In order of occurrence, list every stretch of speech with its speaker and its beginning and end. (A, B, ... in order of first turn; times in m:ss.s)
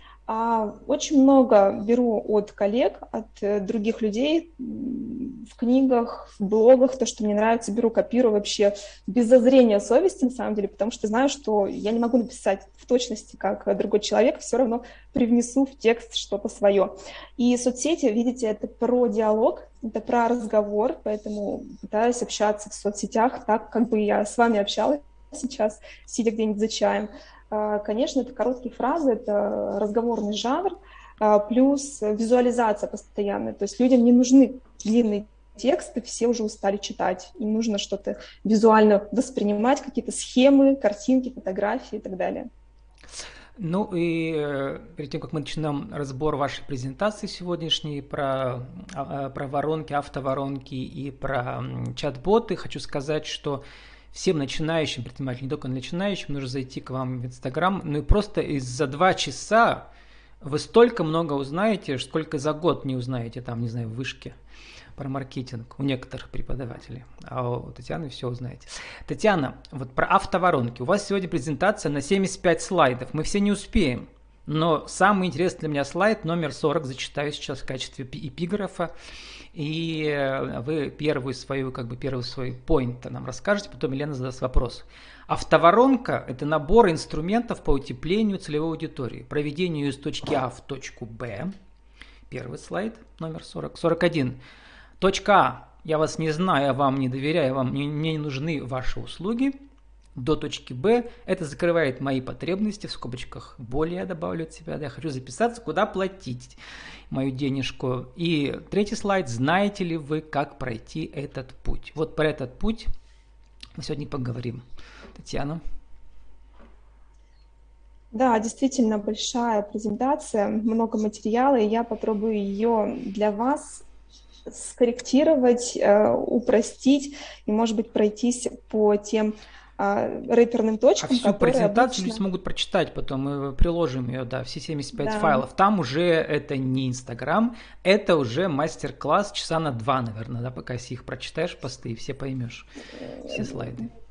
0:00.3-0:42.5 A
0:43.6-0:59.9 B
1:00.4-1:04.4 B
1:05.0-1:18.9 B
1:19.5-1:31.5 B
1:32.3-1:34.4 B
1:35.0-1:39.6 B
1:40.1-1:46.6 B
1:47.1-1:52.9 B
1:53.8-1:54.6 B
1:55.2-1:55.6 B
1:58.1-2:03.8 A
2:04.5-2:12.2 A
2:11.0-2:22.7 B
2:14.9-2:15.4 A
2:23.2-2:23.9 B
2:23.3-2:23.8 A